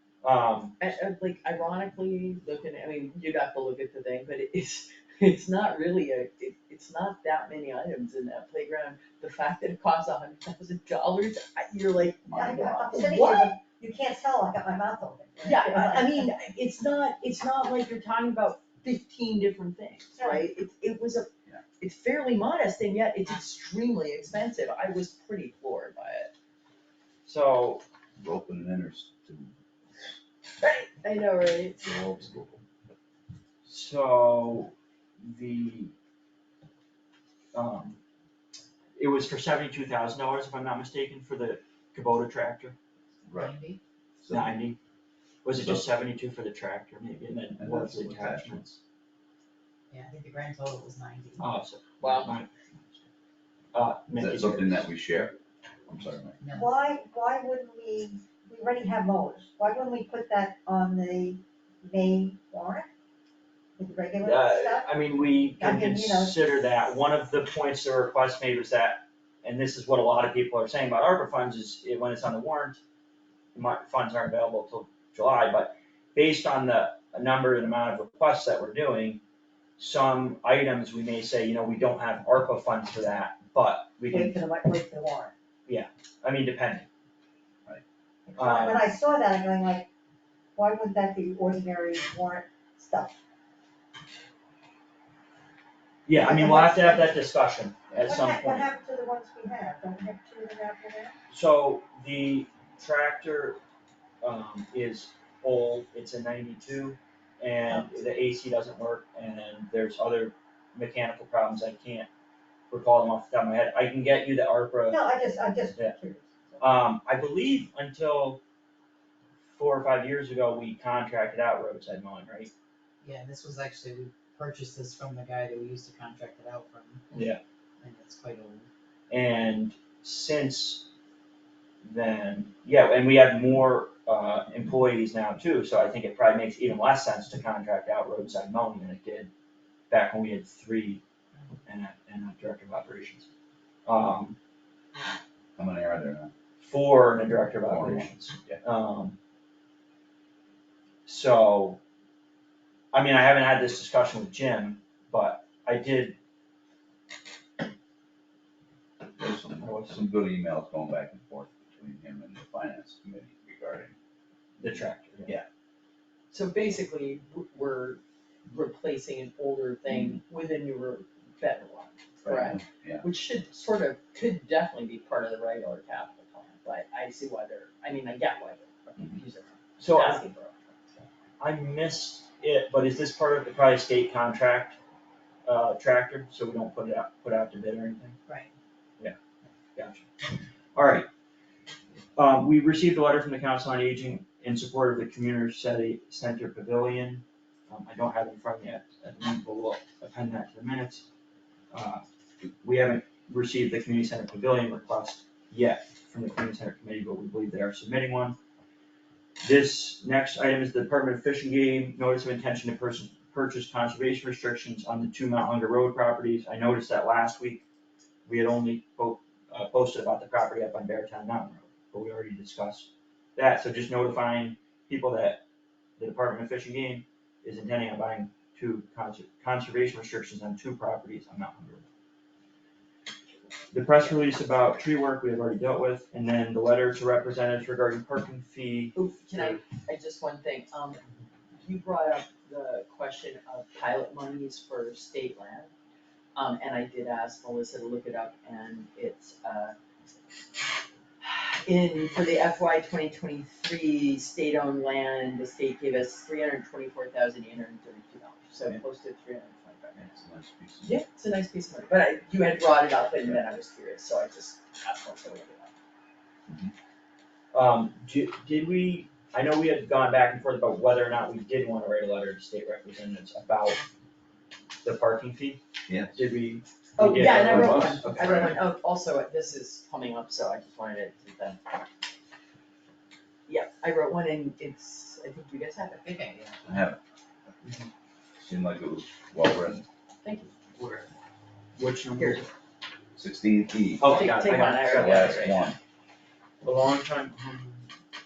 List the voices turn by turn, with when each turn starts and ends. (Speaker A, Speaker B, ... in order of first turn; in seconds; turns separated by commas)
Speaker A: 0.2-0.8, Speaker B: 0.8-13.6, Speaker C: 12.3-12.9, Speaker D: 12.3-16.3, Speaker B: 15.4-26.3, Speaker D: 20.1-20.4, Speaker A: 27.2-27.8, Speaker C: 28.2-30.1, Speaker B: 30.6-32.0, Speaker C: 31.8-32.6, Speaker A: 33.6-35.9, Speaker A: 37.5-38.0, Speaker A: 39.0-42.8, Speaker E: 43.2-43.8, Speaker C: 43.2-43.6, Speaker C: 44.2-44.6, Speaker A: 44.3-44.8, Speaker A: 45.4-48.8, Speaker C: 45.5-45.9, Speaker C: 47.6-48.5, Speaker E: 49.9-51.4, Speaker A: 51.4-53.0, Speaker B: 52.0-52.3, Speaker A: 53.7-54.9, Speaker C: 54.1-56.4, Speaker E: 56.4-56.7, Speaker D: 56.5-62.9, Speaker D: 63.8-64.9, Speaker A: 64.2-72.8, Speaker D: 65.6-66.3, Speaker A: 73.5-79.2, Speaker A: 79.8-84.4, Speaker D: 84.1-85.3, Speaker A: 85.7-86.9, Speaker D: 88.3-89.9, Speaker A: 88.3-88.8, Speaker D: 90.5-93.2, Speaker A: 96.0-98.7, Speaker D: 96.1-97.1, Speaker D: 98.0-101.1, Speaker A: 101.3-103.6, Speaker A: 104.2-112.1, Speaker A: 112.7-115.0, Speaker D: 114.9-116.7, Speaker A: 116.6-118.4, Speaker A: 119.5-122.5, Speaker E: 123.0-127.0, Speaker A: 127.1-127.4, Speaker E: 127.8-128.7, Speaker A: 129.1-130.9, Speaker A: 131.8-139.3, Speaker A: 139.9-141.0, Speaker A: 141.7-143.3, Speaker A: 143.8-144.3, Speaker C: 145.6-146.3, Speaker A: 146.6-149.2, Speaker C: 147.6-148.6, Speaker A: 151.1-151.8, Speaker A: 152.9-156.1, Speaker C: 159.2-163.9, Speaker A: 159.6-160.0, Speaker A: 164.6-165.3, Speaker B: 166.3-181.1, Speaker C: 172.2-173.1, Speaker A: 179.8-180.2, Speaker A: 181.4-184.8, Speaker A: 185.4-188.2, Speaker A: 189.8-191.1, Speaker A: 192.2-201.1, Speaker A: 201.7-202.0, Speaker A: 202.6-208.3, Speaker A: 209.4-217.6, Speaker A: 218.2-225.4, Speaker A: 226.0-231.9, Speaker A: 233.7-239.6, Speaker B: 233.8-234.2, Speaker B: 238.9-241.0, Speaker B: 241.6-245.7, Speaker B: 246.3-249.8, Speaker B: 251.2-260.2, Speaker C: 260.0-261.0, Speaker B: 260.8-265.7, Speaker A: 267.5-273.8, Speaker A: 274.8-275.6, Speaker C: 275.9-276.2, Speaker A: 276.1-278.5, Speaker B: 277.0-281.7, Speaker C: 277.4-278.6, Speaker B: 283.5-286.2, Speaker E: 286.0-286.6, Speaker C: 286.6-287.0, Speaker A: 287.6-287.9, Speaker C: 288.4-289.9, Speaker B: 290.2-290.5, Speaker A: 290.8-291.1, Speaker A: 291.8-292.5, Speaker B: 292.2-292.4, Speaker C: 293.1-294.2, Speaker A: 294.0-295.4, Speaker B: 294.0-295.7, Speaker C: 294.8-295.8, Speaker A: 296.6-297.8